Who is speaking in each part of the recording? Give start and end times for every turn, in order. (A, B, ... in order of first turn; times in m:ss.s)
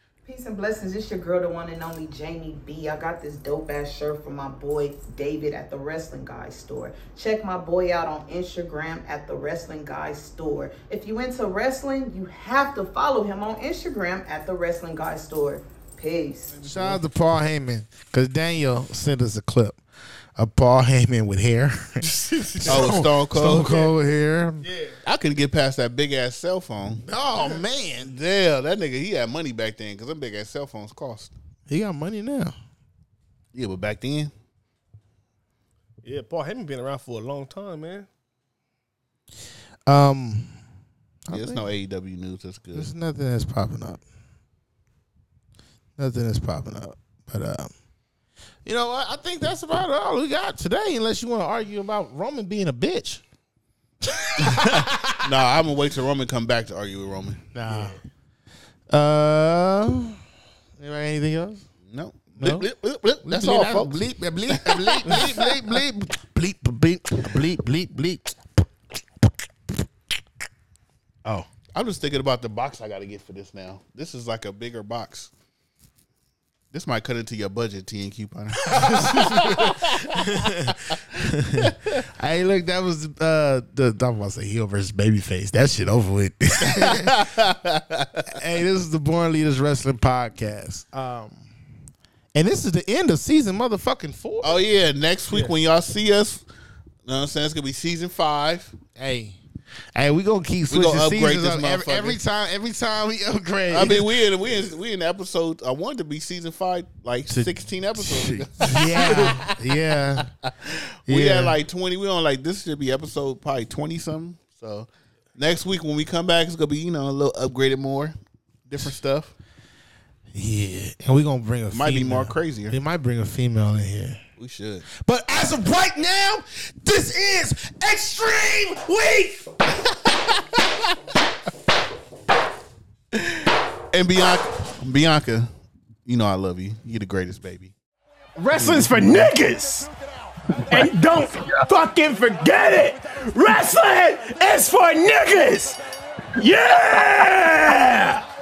0:00.2-0:16.5 A
0:16.6-0:19.8 B
0:20.4-0:24.6 B
0:22.6-0:23.0 C
0:22.6-0:23.9 D
0:24.6-0:25.0 C
0:25.0-0:31.3 D
0:27.0-0:28.1 B
0:31.7-0:32.5 B
0:33.5-0:34.3 D
0:36.0-0:38.1 C
0:39.9-0:40.5 B
0:41.2-0:41.7 B
0:41.3-0:42.9 D
0:42.7-0:44.0 B
0:46.0-0:47.7 B
0:48.6-0:53.2 B
0:54.0-0:55.1 B
0:54.4-0:57.4 D
0:57.5-0:58.0 B
0:57.7-0:58.0 C
0:58.9-1:00.2 B
1:00.8-1:01.6 B
1:01.9-1:05.8 D
1:02.4-1:02.7 B
1:03.2-1:08.4 B
1:11.7-1:15.3 D
1:16.7-1:20.1 D
1:18.7-1:27.2 B
1:21.6-1:22.0 D
1:26.8-1:28.2 D
1:28.3-1:31.5 B
1:32.3-1:34.6 B
1:34.4-1:36.4 D
1:37.0-1:38.8 D
1:39.0-1:39.4 B
1:39.9-1:44.1 B
1:40.7-1:42.2 D
1:43.7-1:49.4 D
1:47.3-1:50.3 B
1:50.6-1:58.2 D
1:51.1-1:51.6 B
1:58.7-1:59.3 D
2:00.3-2:04.2 B
2:01.7-2:02.8 D
2:04.4-2:04.8 D
2:04.8-2:09.5 B
2:13.1-2:15.5 D
2:16.0-2:17.7 D
2:18.4-2:19.9 E
2:18.5-2:19.3 D
2:20.7-2:25.8 E
2:26.4-2:28.2 E